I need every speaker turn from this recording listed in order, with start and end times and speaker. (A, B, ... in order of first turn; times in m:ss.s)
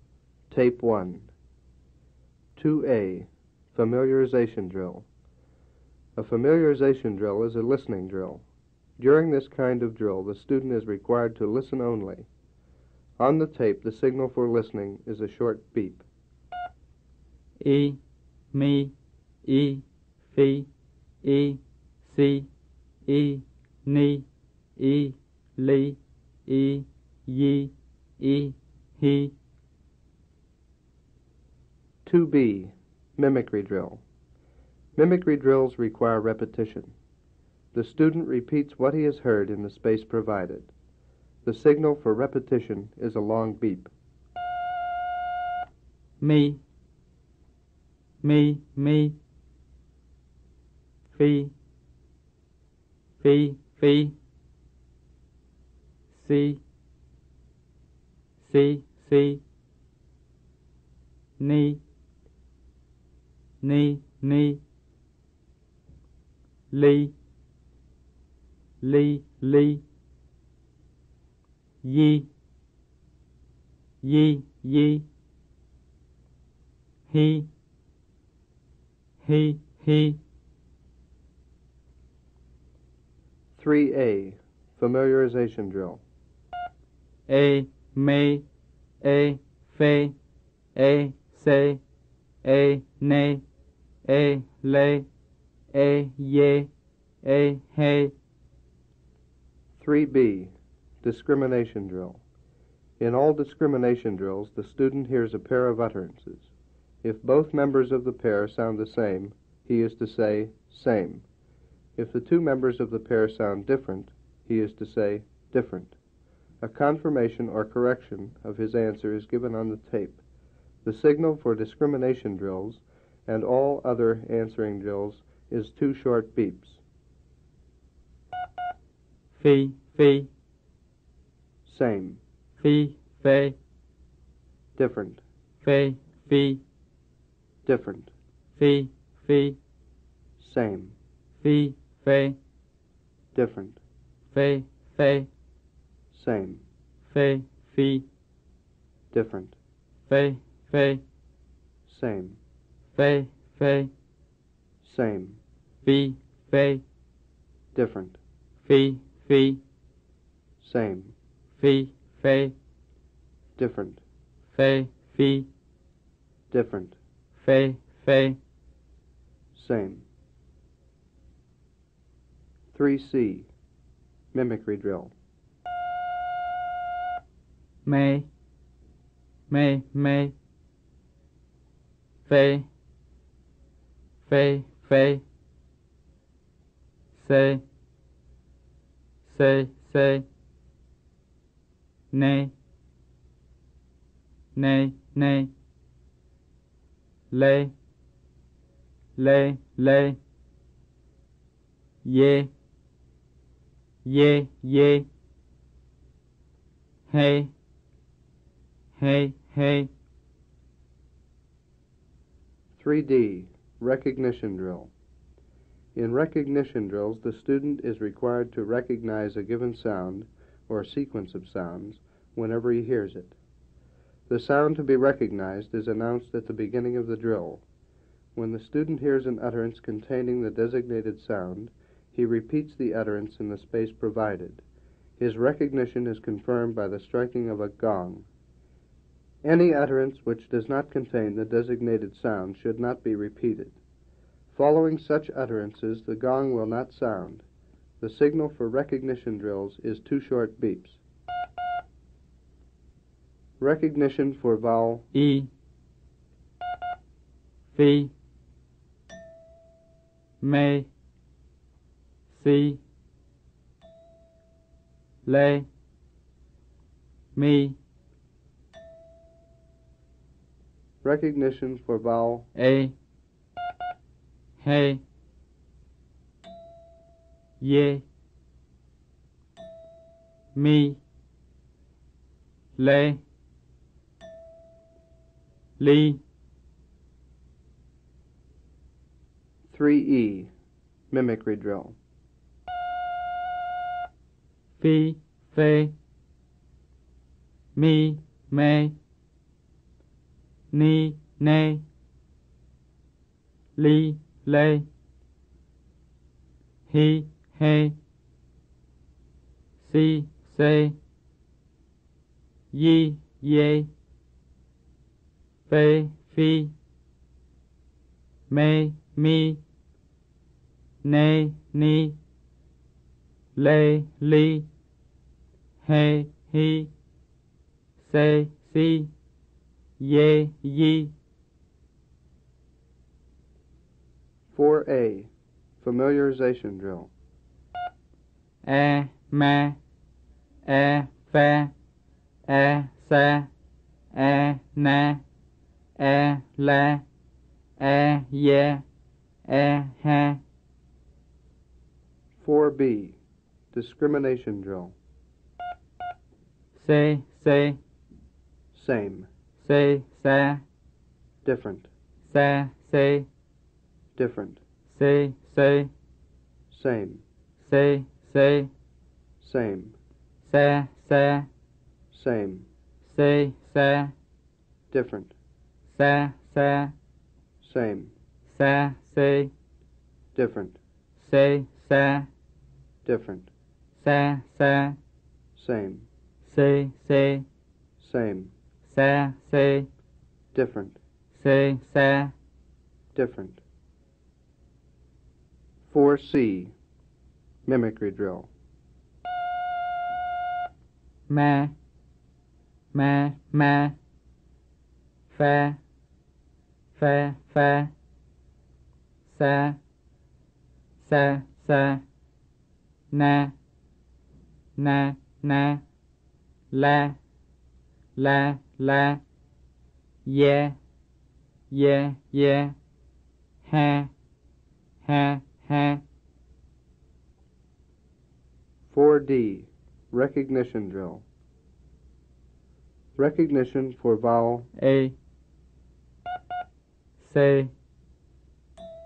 0:00.5-0:01.3 A
0:02.6-0:05.0 A
0:06.2-0:08.4 A
0:09.0-0:12.3 A
0:13.2-0:16.0 A
0:17.6-0:18.0 B
0:18.5-0:20.7 B
0:21.2-0:22.5 B
0:23.1-0:29.3 B
0:32.0-0:34.0 A
0:35.0-0:36.9 A
0:37.7-0:40.7 A
0:41.4-0:43.9 A
0:46.2-0:46.6 B
0:48.2-0:49.2 B
0:51.1-0:51.5 B
0:53.2-0:54.2 B
0:56.1-0:56.6 B
0:58.4-0:59.4 B
1:01.4-1:01.8 B
1:03.6-1:04.6 B
1:06.7-1:07.1 B
1:08.8-1:09.8 B
1:11.8-1:12.3 B
1:14.0-1:15.0 B
1:17.1-1:17.5 B
1:19.2-1:20.2 B
1:23.5-1:26.0 A
1:27.3-1:28.4 B
1:29.0-1:30.2 B
1:30.7-1:31.8 B
1:32.4-1:33.4 B
1:34.0-1:35.1 B
1:35.7-1:36.7 B
1:37.2-1:38.1 B
1:39.8-1:42.2 A
1:43.0-1:46.5 A
1:47.0-1:51.2 A
1:52.0-1:56.0 A
1:56.6-2:00.2 A
2:00.8-2:06.8 A
2:09.3-2:10.3 B
2:11.6-2:12.2 A
2:12.6-2:13.6 B
2:14.8-2:15.2 A
2:15.6-2:16.6 B
2:17.6-2:18.1 A
2:18.6-2:19.6 B
2:20.4-2:21.0 A
2:21.4-2:22.4 B
2:23.3-2:23.8 A
2:24.3-2:25.3 B
2:26.1-2:26.6 A
2:27.0-2:28.1 B
2:29.1-2:29.6 A
2:30.1-2:31.0 B
2:31.9-2:32.4 A
2:32.9-2:33.9 B
2:34.8-2:35.4 A
2:35.8-2:36.8 B
2:37.7-2:38.2 A
2:38.6-2:39.6 B
2:40.6-2:41.1 A
2:41.6-2:42.6 B
2:43.6-2:44.0 A
2:44.5-2:45.5 B
2:46.5-2:47.0 A
2:47.4-2:48.4 B
2:49.5-2:50.0 A
2:52.7-2:53.5 A
2:54.3-2:55.1 A
2:57.8-2:58.3 B
2:59.5-3:00.3 B
3:02.2-3:02.7 B
3:04.2-3:05.2 B
3:07.2-3:07.6 B
3:09.2-3:10.2 B
3:12.1-3:12.5 B
3:14.6-3:15.5 B
3:17.3-3:17.7 B
3:19.2-3:20.2 B
3:22.0-3:22.5 B
3:24.0-3:25.1 B
3:27.1-3:27.5 B
3:29.0-3:29.9 B
3:32.7-3:34.9 A
3:35.9-3:43.4 A
3:44.3-3:47.6 A
3:48.3-3:54.6 A
3:55.2-3:58.2 A
3:59.4-4:03.8 A
4:04.5-4:07.4 A
4:08.0-4:11.0 A
4:13.6-4:15.1 A
4:15.1-4:15.5 B
4:17.7-4:18.1 B
4:20.4-4:20.9 B
4:22.3-4:22.8 B
4:25.2-4:25.7 B
4:27.3-4:27.8 B
4:31.0-4:32.5 A
4:32.5-4:32.9 B
4:34.6-4:35.0 B
4:37.6-4:38.0 B
4:40.5-4:41.0 B
4:42.8-4:43.2 B
4:45.8-4:46.2 B
4:49.7-4:50.5 A
4:51.1-4:52.0 A
4:54.8-4:55.9 B
4:57.7-4:59.0 B
5:00.7-5:01.8 B
5:03.8-5:04.9 B
5:06.9-5:08.0 B
5:09.8-5:11.0 B
5:12.7-5:13.9 B
5:15.7-5:16.7 B
5:18.5-5:19.6 B
5:21.0-5:22.2 B
5:23.6-5:24.7 B
5:25.8-5:26.9 B
5:28.0-5:29.1 B
5:30.0-5:31.1 B
5:34.5-5:37.1 A
5:38.6-5:39.8 B
5:40.6-5:41.7 B
5:42.5-5:43.5 B
5:44.1-5:45.2 B
5:46.0-5:47.0 B
5:47.8-5:48.8 B
5:49.5-5:50.4 B
5:52.4-5:53.2 A
5:53.7-5:54.9 A
5:56.7-5:57.8 B
5:58.7-5:59.3 A
5:59.6-6:00.6 B
6:01.4-6:01.9 A
6:02.2-6:03.3 B
6:04.2-6:04.6 A
6:04.9-6:05.9 B
6:06.7-6:07.2 A
6:07.6-6:08.7 B
6:09.4-6:10.0 A
6:10.4-6:11.5 B
6:12.1-6:12.7 A
6:13.0-6:14.1 B
6:14.9-6:15.3 A
6:15.9-6:16.9 B
6:17.6-6:18.1 A
6:18.5-6:19.5 B
6:20.3-6:20.8 A
6:21.2-6:22.3 B
6:23.0-6:23.5 A
6:24.0-6:25.0 B
6:25.5-6:26.1 A
6:26.4-6:27.4 B
6:28.0-6:28.5 A
6:28.9-6:29.9 B
6:30.5-6:31.0 A
6:31.3-6:32.3 B
6:33.1-6:33.6 A
6:35.9-6:36.7 A
6:37.6-6:38.5 A
6:41.3-6:41.7 B
6:42.9-6:44.0 B
6:45.3-6:45.8 B
6:47.0-6:47.9 B
6:49.3-6:49.8 B
6:51.0-6:52.0 B
6:53.1-6:53.5 B
6:54.8-6:55.8 B
6:56.7-6:57.2 B
6:58.2-6:59.2 B
7:00.2-7:00.8 B
7:01.7-7:02.7 B
7:03.6-7:04.1 B
7:05.0-7:06.0 B
7:08.9-7:11.2 A
7:13.2-7:14.7 A
7:14.8-7:15.2 B
7:17.2-7:17.7 B